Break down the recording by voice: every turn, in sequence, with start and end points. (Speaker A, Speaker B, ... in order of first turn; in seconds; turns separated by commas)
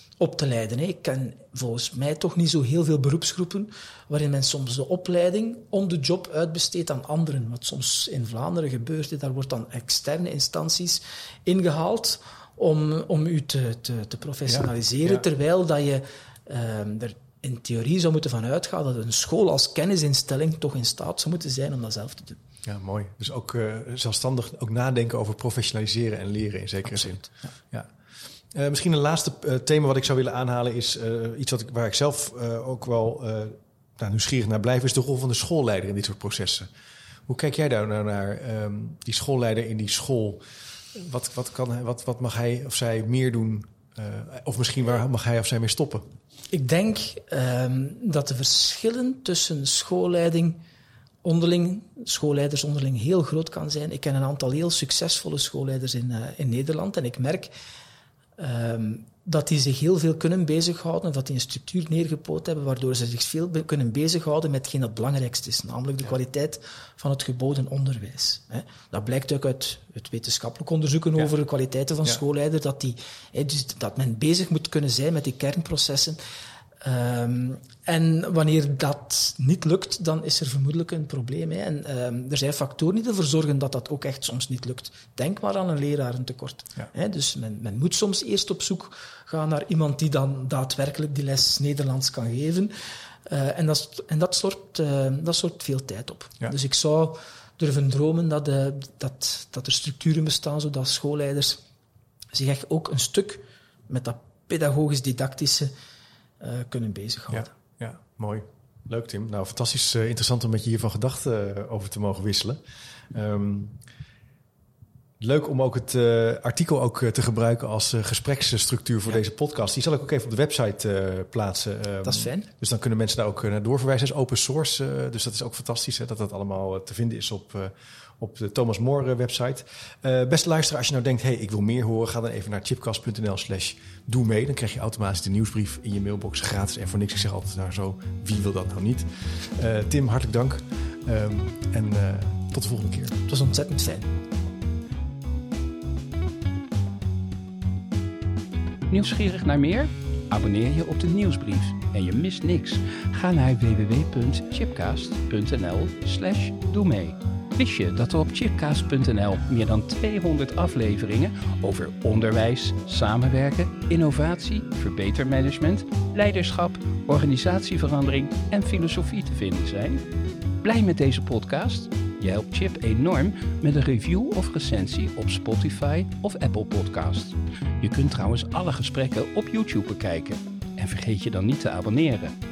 Speaker A: 0.2-22.4, Speaker B: 14.5-15.2, Speaker B: 22.6-27.9, Speaker A: 26.9-27.5, Speaker B: 28.5-36.7, Speaker B: 37.3-40.4, Speaker B: 40.9-46.1, Speaker A: 46.5-50.6, Speaker A: 51.2-57.5, Speaker A: 58.4-76.2, Speaker A: 76.8-92.7, Speaker A: 93.3-101.6, Speaker A: 102.3-105.7, Speaker A: 106.4-107.5, Speaker B: 107.3-112.6, Speaker B: 113.1-113.8, Speaker B: 115.2-143.2, Speaker A: 122.0-122.5, Speaker A: 143.3-144.1, Speaker C: 148.9-170.0, Speaker C: 170.6-182.3